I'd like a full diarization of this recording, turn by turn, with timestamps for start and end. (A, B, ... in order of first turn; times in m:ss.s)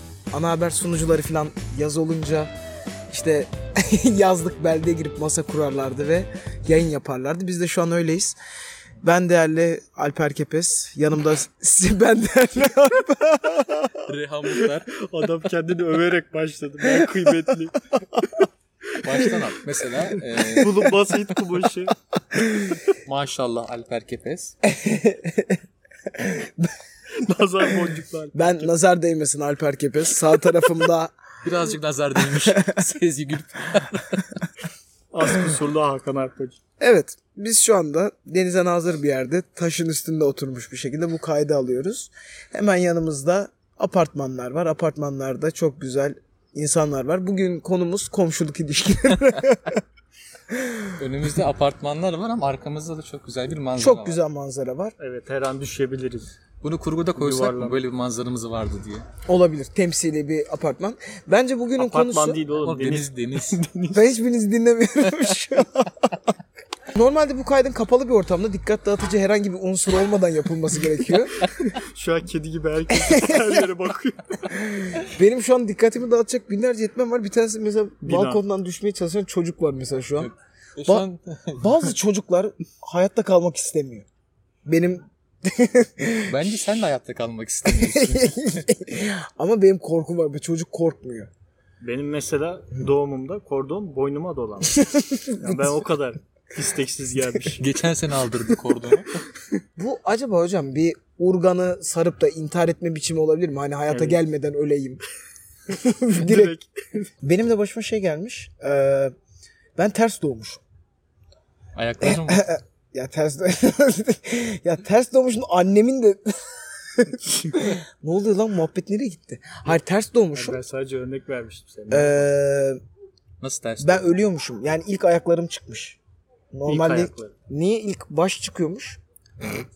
0:00.3-0:02.5 A
0:03.1-0:08.4 A
0:09.0-0:13.9 A
0:14.0-0:14.9 B
0:14.6-0:17.8 C
0:19.0-0:20.9 B
0:20.4-0:20.6 A
0:20.5-0:21.9 C
0:22.3-0:22.8 A
0:23.0-0:24.6 B
0:24.6-0:25.6 A
0:26.1-0:26.7 A
0:27.2-0:28.7 C
0:28.3-0:31.1 A
0:31.4-0:34.3 B
0:32.3-0:32.8 A
0:35.1-0:36.6 C
0:36.8-0:49.8 A
0:50.5-0:50.9 A
0:51.0-0:54.2 B
0:53.8-0:54.9 A
0:55.0-0:56.3 C
0:56.6-0:59.0 B
0:57.2-0:57.8 C
0:59.3-1:02.4 A
1:01.8-1:04.1 C
1:02.6-1:03.6 B
1:03.9-1:06.2 A
1:06.9-1:11.5 A
1:11.7-1:14.6 C
1:13.0-1:13.6 A
1:14.6-1:20.3 A
1:18.0-1:18.4 C
1:20.2-1:21.9 B
1:21.6-1:24.0 A
1:24.6-1:26.5 A
1:26.2-1:28.6 B
1:27.6-1:31.3 A
1:31.8-1:34.8 C
1:34.7-1:35.8 A
1:35.4-1:37.6 C
1:37.6-1:39.1 B
1:39.8-1:45.0 A
1:43.9-1:44.2 C
1:45.7-1:46.5 A
1:46.2-1:47.1 C
1:47.2-1:49.1 A
1:49.8-1:50.6 A
1:51.8-1:52.5 B
1:52.0-2:00.6 A
2:00.3-2:02.3 C
2:01.9-2:02.8 A
2:03.4-2:04.1 B
2:03.8-2:06.0 A
2:06.5-2:09.0 A
2:06.7-2:07.3 C